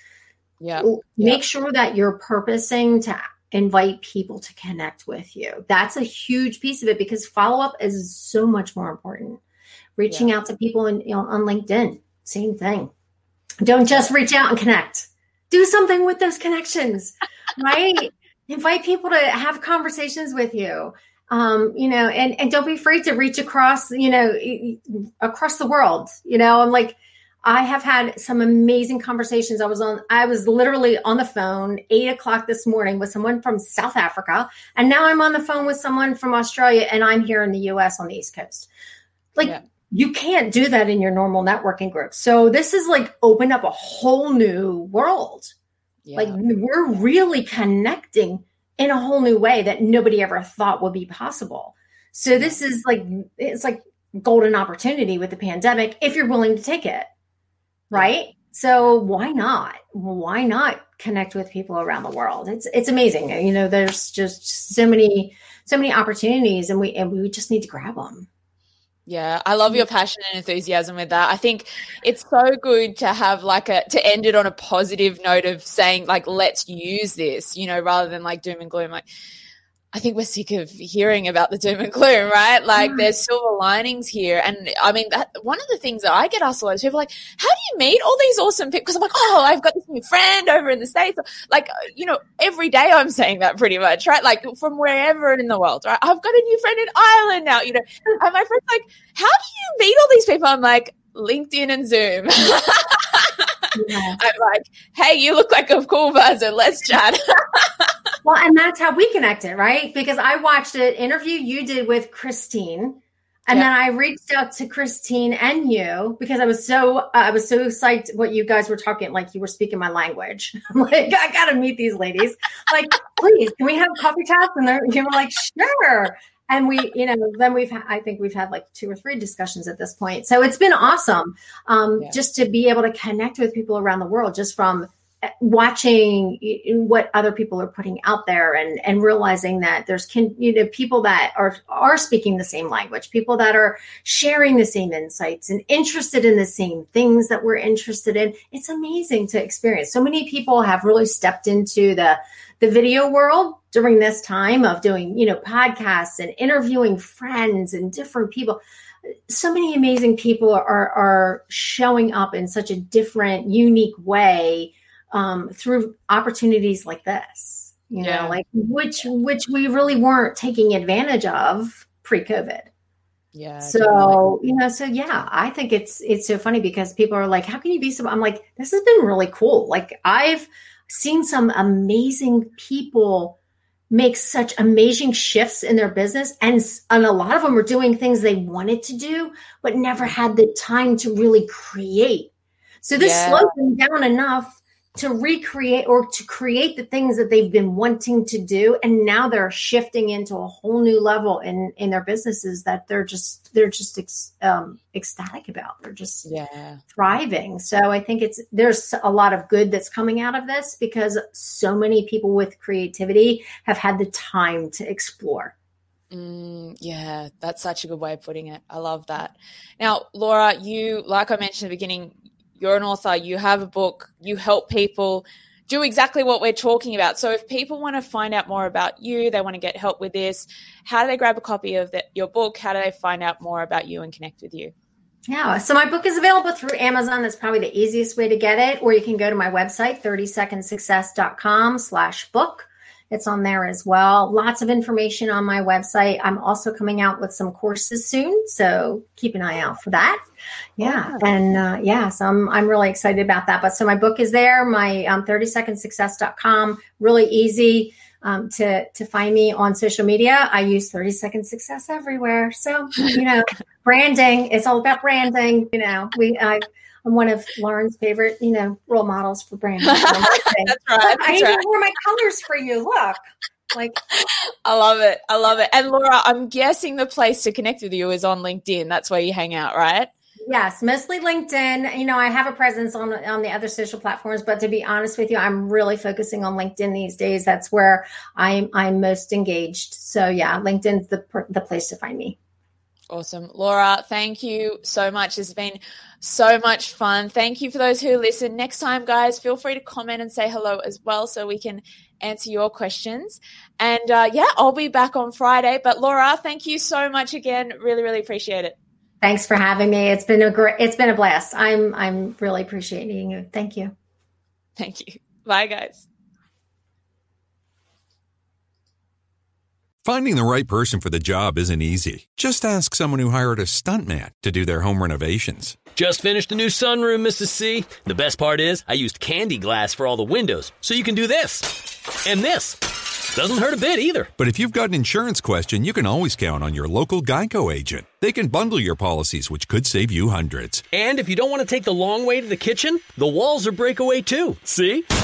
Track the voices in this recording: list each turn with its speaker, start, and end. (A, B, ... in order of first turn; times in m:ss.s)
0:00.6-0:01.4 A
0:00.8-0:09.4 B
0:10.0-0:12.9 B
0:13.6-0:38.7 B
0:39.3-0:45.5 B
0:46.0-0:46.4 A
0:46.1-0:57.1 B
0:52.3-0:52.6 A
0:57.9-1:08.3 B
1:09.0-1:19.0 A
1:19.9-1:48.1 A
1:22.8-1:23.1 B
1:43.7-1:44.2 B
1:48.2-2:38.6 B
2:39.3-2:52.7 B
2:48.0-2:48.4 A
2:53.3-2:54.2 A
2:53.6-3:03.4 B
3:03.9-3:12.3 B
3:12.8-3:26.3 B
3:13.0-3:13.5 A
3:26.2-3:26.8 A
3:26.9-3:35.5 B
3:36.1-3:54.7 A
3:55.3-4:10.2 B
4:10.8-4:34.0 B
4:10.8-4:11.2 A
4:29.8-4:31.6 A
4:34.2-4:40.1 A
4:40.4-4:52.4 B
4:53.1-5:08.7 A
5:09.2-5:13.9 B
5:14.8-5:16.0 A
5:20.0-5:25.8 C
5:25.9-5:32.8 D
5:33.3-5:34.3 D
5:34.4-5:40.8 C
5:40.9-5:45.0 D